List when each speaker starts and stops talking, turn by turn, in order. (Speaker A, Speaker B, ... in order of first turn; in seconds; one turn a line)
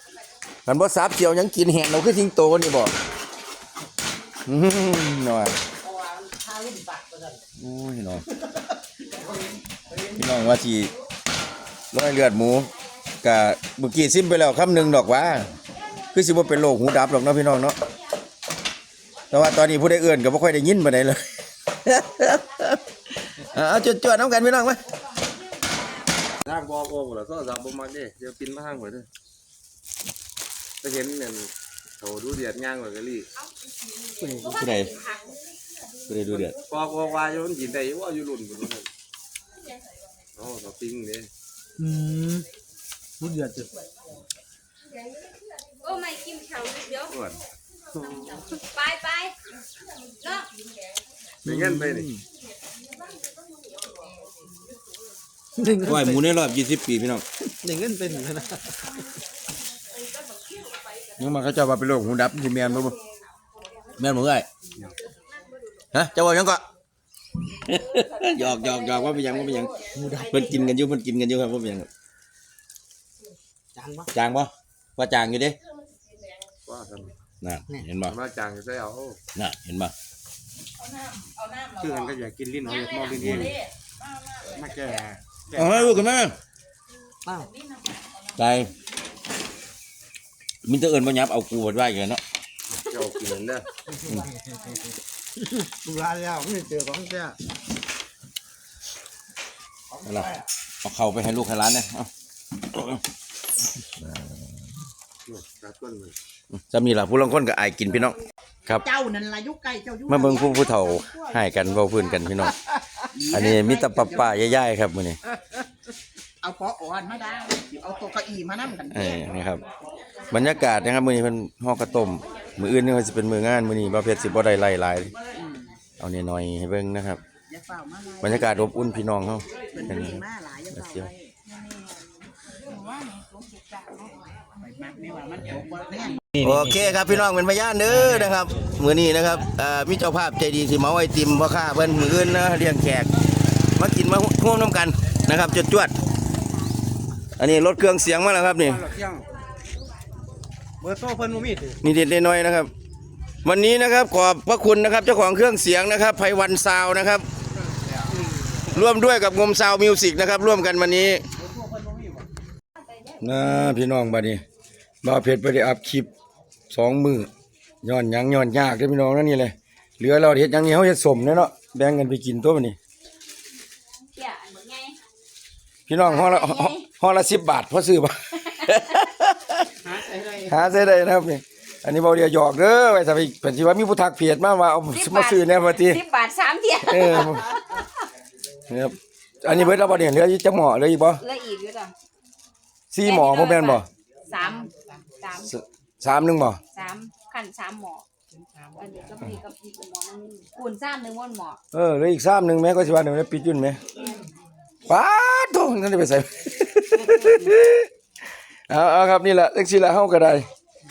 Speaker A: 0.7-2.9
Speaker A: 4.5-5.6
Speaker B: 5.8-7.4
Speaker A: 7.6-8.2
Speaker A: 10.1-10.9
Speaker A: 11.9-12.7
Speaker A: 13.2-15.5
Speaker A: 16.1-17.8
Speaker A: 19.3-22.8
Speaker A: 23.4-24.8
Speaker C: 26.4-29.1
Speaker C: 30.8-33.3
Speaker B: 34.2-34.5
Speaker D: 34.3-35.3
Speaker A: 34.6-34.9
Speaker A: 36.1-36.6
Speaker C: 36.6-38.9
Speaker C: 40.4-41.3
Speaker B: 41.8-42.5
Speaker B: 43.2-43.7
Speaker D: 45.8-47.1
Speaker C: 47.1-47.4
Speaker D: 48.6-49.4
Speaker D: 50.2-50.5
Speaker C: 51.4-52.1
Speaker A: 51.5-52.2
Speaker B: 55.6-56.1
Speaker A: 55.8-57.2
Speaker B: 57.6-58.6
Speaker A: 61.2-63.0
Speaker A: 64.0-64.5
Speaker A: 65.9-66.6
Speaker A: 67.5-71.9
Speaker B: 70.0-70.3
Speaker B: 73.8-74.1
Speaker A: 74.1-75.6
Speaker C: 76.7-77.1
Speaker A: 77.4-78.2
Speaker C: 78.1-79.2
Speaker A: 79.3-79.9
Speaker D: 81.2-82.1
Speaker C: 81.8-83.6
Speaker D: 82.7-83.0
Speaker A: 83.2-83.5
Speaker C: 84.6-85.0
Speaker A: 85.5-86.3
Speaker A: 88.3-88.7
Speaker A: 90.6-92.2
Speaker C: 92.8-93.7
Speaker B: 95.6-97.4
Speaker A: 100.0-102.1
Speaker A: 104.1-104.3
Speaker C: 105.3-106.2
Speaker A: 106.6-108.8
Speaker B: 108.8-110.5
Speaker A: 110.1-112.6
Speaker B: 113.2-114.1
Speaker A: 113.3-115.2
Speaker B: 116.4-119.1
Speaker A: 118.9-119.6
Speaker A: 120.3-125.1
Speaker A: 126.0-127.2
Speaker B: 127.5-128.3
Speaker A: 128.2-131.1
Speaker B: 129.7-131.3
Speaker D: 132.7-134.2
Speaker B: 134.6-136.3
Speaker A: 136.3-143.1
Speaker A: 143.7-145.9
Speaker A: 147.4-148.9
Speaker B: 150.8-151.7
Speaker A: 151.8-152.7
Speaker A: 153.4-157.3
Speaker A: 158.7-161.2
Speaker B: 161.6-162.2
Speaker A: 163.2-164.4
Speaker A: 165.0-166.1
Speaker A: 166.7-167.3
Speaker A: 167.8-172.8
Speaker D: 174.1-175.0
Speaker A: 175.9-179.7
Speaker D: 176.0-176.8
Speaker B: 179.9-180.4
Speaker A: 180.3-186.0
Speaker D: 184.9-188.1
Speaker A: 186.8-187.5
Speaker A: 188.7-191.2
Speaker D: 191.2-191.9
Speaker A: 192.9-193.9
Speaker D: 193.0-195.5
Speaker A: 195.5-196.6
Speaker D: 196.7-198.1
Speaker D: 198.6-201.6
Speaker A: 201.7-203.8
Speaker A: 204.9-207.9
Speaker A: 208.7-210.5